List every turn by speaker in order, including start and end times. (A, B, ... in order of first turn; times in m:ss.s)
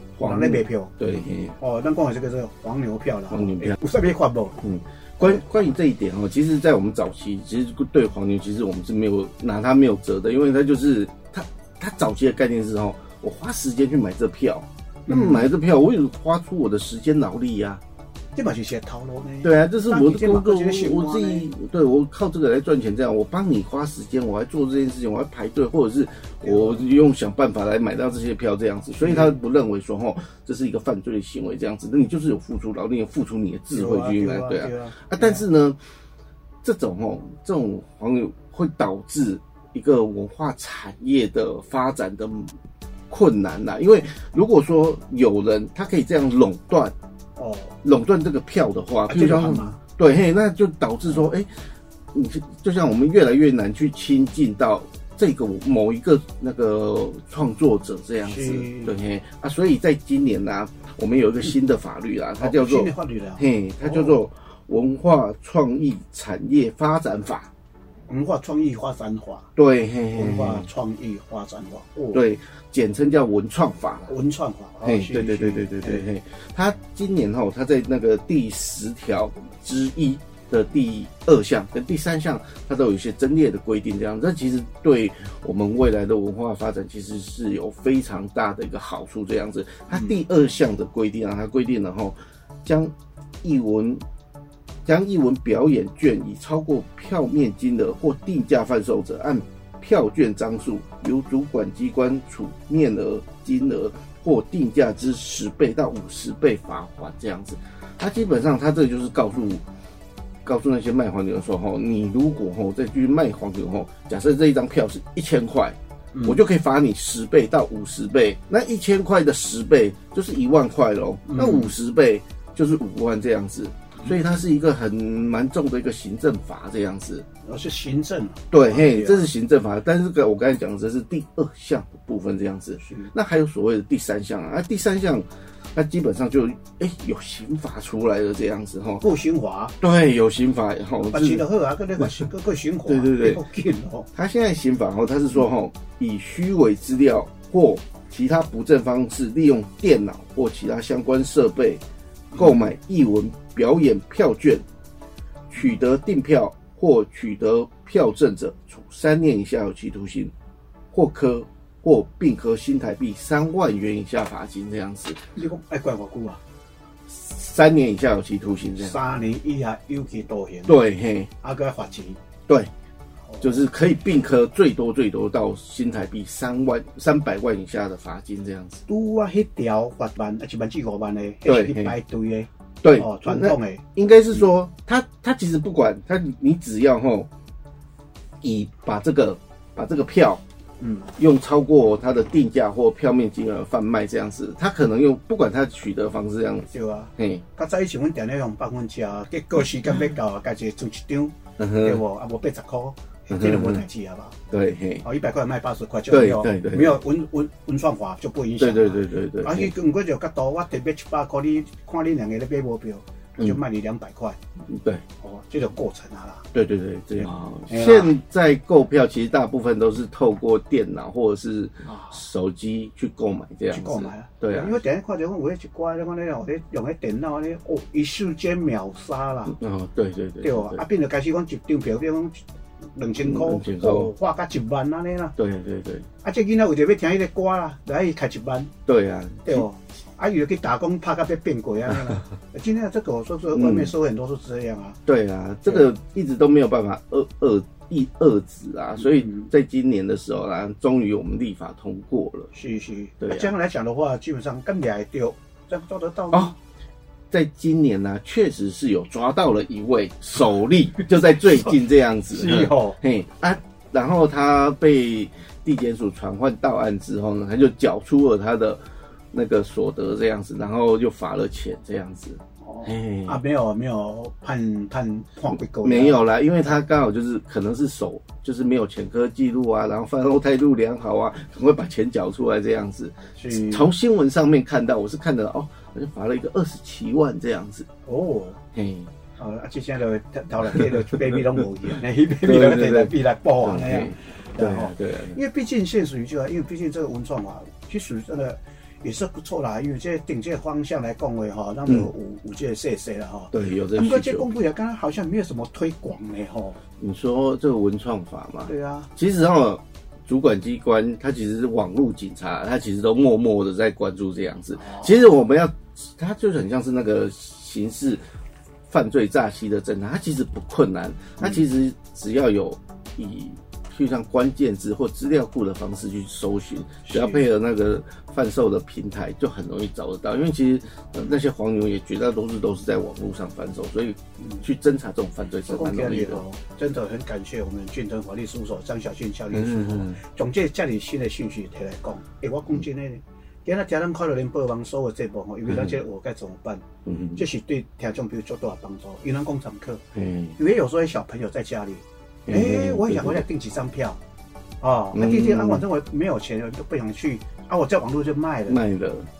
0:00.2-0:01.6 A
0:00.2-0:00.9 B
0:01.6-0:04.6 B
0:03.3-0:03.8 A
0:04.6-0:17.8 A
0:15.1-0:15.5 B
0:18.3-0:21.4 B
0:19.4-0:35.8 A
0:26.4-0:26.8 B
0:29.0-0:29.3 B
0:33.7-0:35.4 B
0:36.6-0:42.5 A
0:43.1-0:46.9 A
0:47.4-0:47.8 B
0:47.8-0:51.5 A
0:49.1-0:49.8 B
0:52.1-1:07.5 A
0:58.2-0:58.9 B
1:02.4-1:04.2 B
1:08.1-1:09.5 B
1:09.6-1:10.7 A
1:10.2-1:12.2 B
1:12.1-1:14.1 A
1:14.1-1:16.1 B
1:14.8-1:32.9 A
1:33.4-1:34.0 A
1:34.8-1:49.6 A
1:50.4-2:07.2 A
2:01.3-2:01.7 B
2:07.4-2:09.3 B
2:08.5-2:19.0 A
2:19.0-2:19.7 B
2:19.8-2:21.4 A
2:21.1-2:24.1 B
2:22.0-2:22.3 A
2:22.9-2:23.4 A
2:24.1-2:31.8 A
2:32.3-2:32.6 B
2:32.3-2:34.6 A
2:35.5-2:40.3 A
2:40.9-2:45.2 A
2:45.4-2:46.4 B
2:47.1-2:49.0 A
2:48.8-2:50.8 B
2:50.7-2:51.3 A
2:51.4-2:52.2 B
2:53.3-2:53.5 B
2:53.4-2:58.8 A
2:58.9-3:03.8 B
3:01.4-3:01.9 A
3:02.8-3:07.3 A
3:08.4-3:10.4 A
3:10.8-3:11.1 B
3:11.2-3:17.4 A
3:16.7-3:24.4 B
3:21.6-3:22.0 A
3:23.3-3:23.8 A
3:24.5-3:25.0 A
3:25.0-3:34.4 B
3:26.1-3:27.0 A
3:28.6-3:29.7 A
3:34.6-3:35.0 A
3:35.2-3:36.4 B
3:36.5-3:44.7 A
3:37.2-3:38.1 B
3:41.8-3:42.2 B
3:43.7-3:49.6 B
3:49.5-3:50.8 A
3:50.4-3:52.4 B
3:52.9-3:55.3 B
3:53.2-3:54.1 A
3:55.4-3:56.1 A
3:56.2-3:58.7 B
3:58.9-3:59.6 A
3:59.4-4:05.0 B
4:03.5-4:03.9 A
4:05.1-4:12.5 A
4:09.0-4:09.5 B
4:12.5-4:16.5 B
4:13.2-4:13.5 A
4:17.3-4:28.8 A
4:22.3-4:23.0 B
4:29.3-4:33.4 A
4:32.6-4:36.2 B
4:35.5-4:47.9 A
4:43.4-4:43.9 B
4:48.0-4:48.6 B
4:48.7-4:49.1 A
4:49.4-5:06.8 B
4:52.4-4:55.4 A
5:03.5-5:04.5 A
5:07.0-5:18.2 A
5:08.6-5:09.1 B
5:14.8-5:15.1 B
5:18.9-5:36.4 A
5:27.1-5:27.4 B
5:35.7-5:46.8 B
5:39.5-5:40.2 A
5:47.0-5:47.4 A
5:47.3-5:50.0 B
5:50.1-5:50.6 A
5:50.6-5:54.2 B
5:52.5-5:53.4 A
5:54.8-5:58.8 B
5:55.1-5:55.8 A
5:58.7-5:59.3 A